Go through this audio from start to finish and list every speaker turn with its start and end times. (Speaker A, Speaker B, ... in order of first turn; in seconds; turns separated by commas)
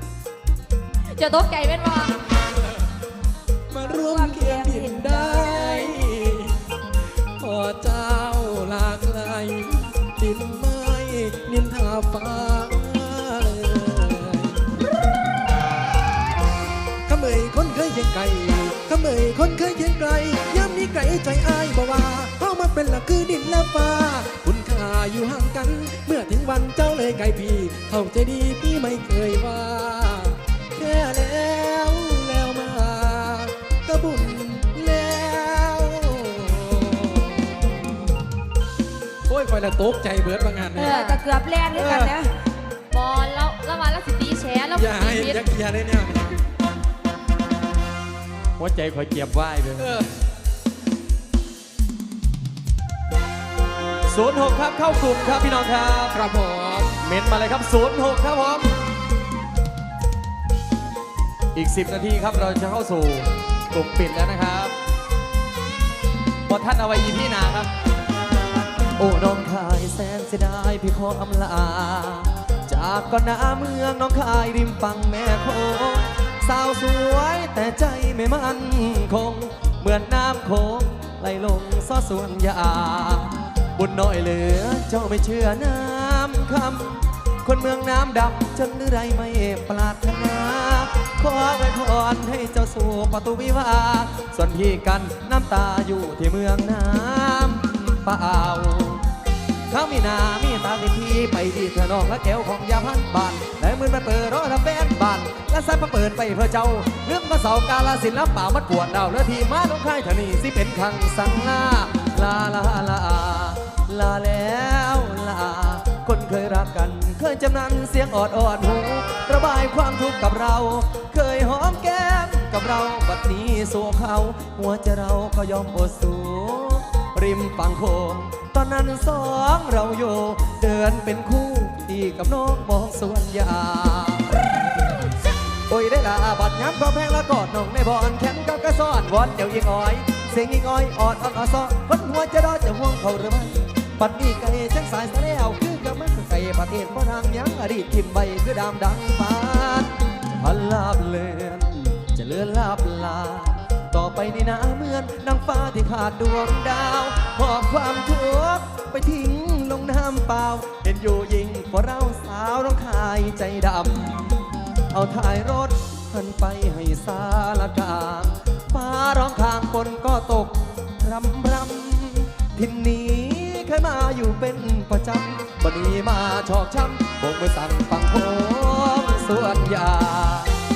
Speaker A: 1.1-2.2, Speaker B: 3.7-6.6, Speaker C: 3.8-6.0, Speaker B: 7.4-14.7, Speaker B: 17.1-37.9, Speaker B: 39.3-41.0, Speaker C: 40.8-42.3, Speaker A: 40.8-41.2, Speaker B: 41.7-42.2, Speaker A: 42.9-45.4, Speaker B: 44.8-46.4, Speaker D: 48.6-49.9, Speaker B: 49.8-50.1, Speaker D: 54.1-56.2, Speaker B: 56.1-57.0, Speaker D: 57.0-58.8, Speaker D: 61.5-64.8, Speaker D: 66.5-67.7, Speaker D: 69.0-99.0, Speaker D: 99.7-134.5, Speaker D: 135.7-164.4, Speaker D: 164.9-180.5